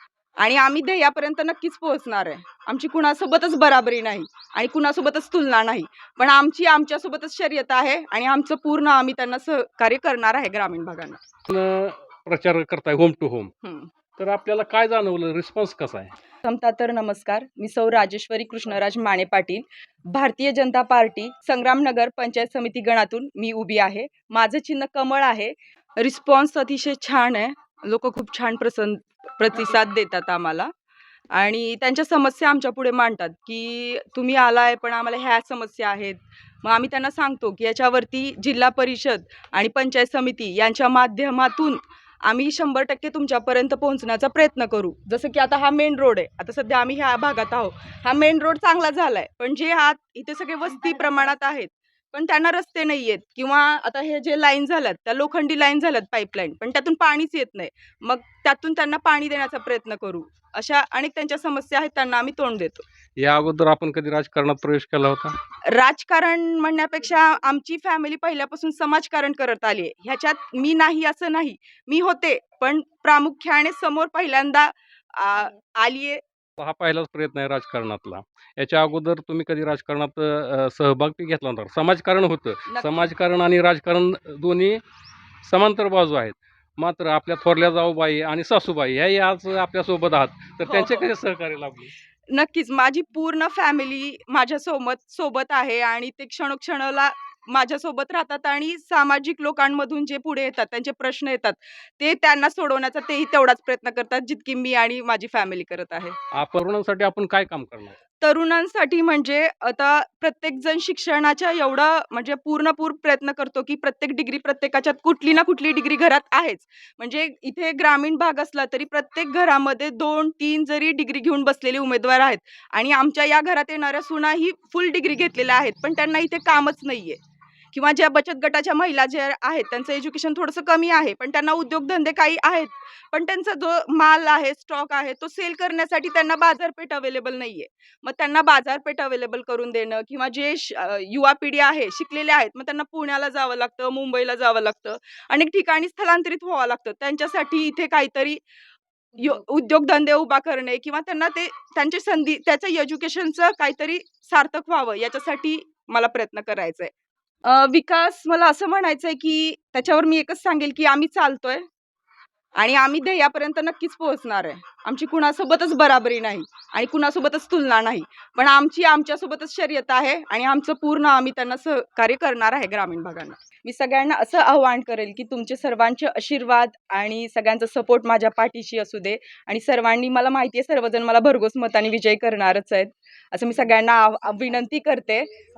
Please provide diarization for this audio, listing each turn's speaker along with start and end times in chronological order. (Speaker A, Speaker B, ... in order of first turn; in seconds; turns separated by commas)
Speaker A: 0.4-11.2, Speaker B: 11.5-13.5, Speaker A: 13.6-13.9, Speaker B: 14.2-16.1, Speaker A: 16.4-30.7, Speaker A: 31.3-62.8, Speaker B: 63.2-65.4, Speaker A: 65.6-76.2, Speaker B: 76.6-84.8, Speaker A: 82.7-83.1, Speaker B: 85.4-91.9, Speaker A: 90.6-91.1, Speaker A: 92.3-106.2, Speaker B: 106.3-108.0, Speaker A: 108.2-127.2, Speaker A: 127.7-148.4, Speaker A: 149.2-156.9, Speaker A: 157.4-161.6, Speaker A: 162.6-185.3